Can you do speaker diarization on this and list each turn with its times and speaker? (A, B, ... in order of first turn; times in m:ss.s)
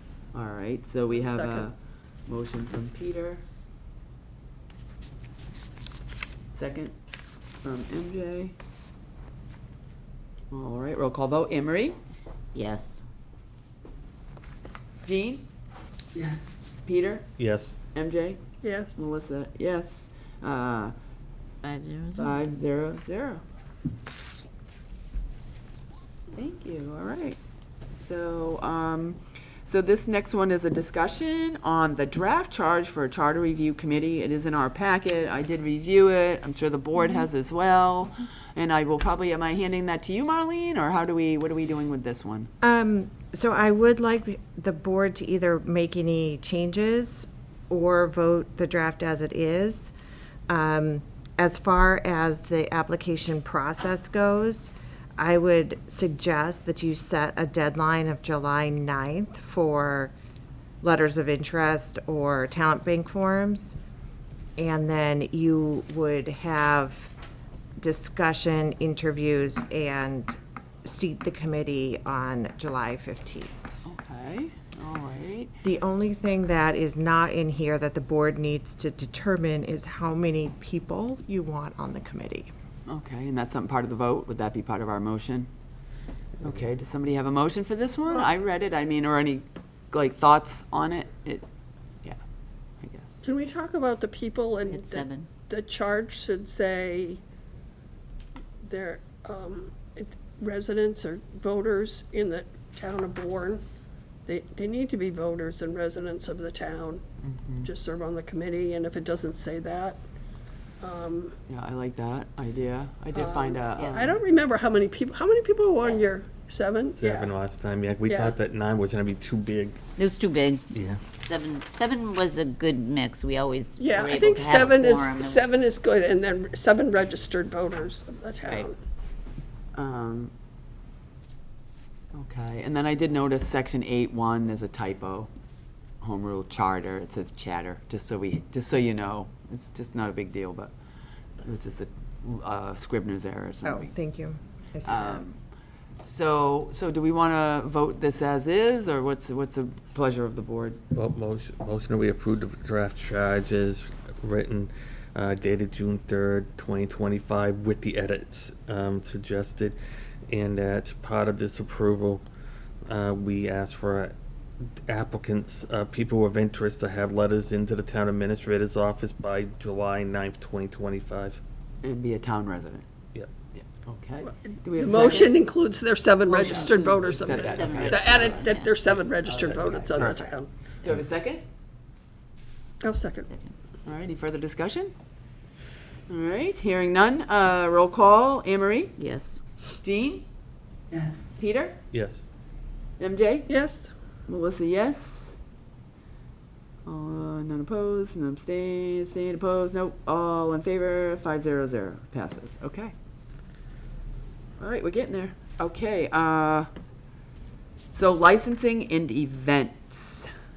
0:00.3-0:01.7 A
0:01.1-0:01.7 B
0:02.3-0:03.4 A
0:06.5-0:06.9 A
0:07.6-0:08.5 A
0:10.5-0:12.0 A
0:12.5-0:13.0 C
0:15.0-0:15.4 A
0:16.8-0:17.2 A
0:17.4-0:17.7 D
0:17.9-0:18.4 A
0:18.6-0:19.0 B
0:19.0-0:20.9 A
0:21.6-0:22.4 C
0:22.2-0:23.4 A
0:26.3-0:27.4 A
0:27.9-0:42.5 A
0:42.6-0:49.9 E
0:50.5-1:00.1 E
1:00.8-1:03.8 E
1:04.6-1:07.1 E
1:07.8-1:13.5 E
1:13.8-1:15.5 A
1:15.6-1:22.5 E
1:22.9-1:25.5 A
1:26.4-1:31.4 A
1:32.8-1:33.2 A
1:33.2-1:37.2 B
1:34.7-1:35.3 C
1:38.6-1:43.6 B
1:44.2-1:47.0 B
1:47.2-1:47.7 A
1:47.6-1:50.0 B
1:50.8-1:51.3 B
1:51.5-1:54.2 A
1:53.1-1:57.3 B
1:53.8-1:54.1 C
1:55.7-1:56.0 C
1:56.9-1:59.8 D
1:58.0-1:58.3 B
2:00.0-2:05.4 C
2:00.7-2:01.0 D
2:03.8-2:08.8 B
2:09.7-2:10.3 A
2:12.1-2:15.3 A
2:16.0-2:20.7 A
2:21.4-2:23.9 A
2:23.6-2:25.3 E
2:24.8-2:25.4 A
2:26.0-2:30.8 A
2:30.9-2:39.8 D
2:40.3-2:42.2 D
2:42.9-2:51.4 D
2:51.8-2:52.9 A
2:53.5-2:55.4 A
2:54.2-3:00.5 B
2:56.3-2:58.7 C
2:56.4-2:58.4 A
2:58.8-3:00.2 D
2:59.2-3:00.2 A
3:00.8-3:01.4 A
3:02.8-3:03.3 B
3:03.3-3:03.5 C
3:03.8-3:04.9 A
3:06.1-3:08.9 A
3:09.0-3:09.4 C
3:09.8-3:10.2 A
3:11.4-3:11.8 A
3:11.9-3:12.2 D
3:13.0-3:13.5 A
3:13.5-3:13.9 B
3:14.3-3:15.4 A
3:16.8-3:22.9 A
3:24.6-3:26.7 A
3:27.9-3:30.3 A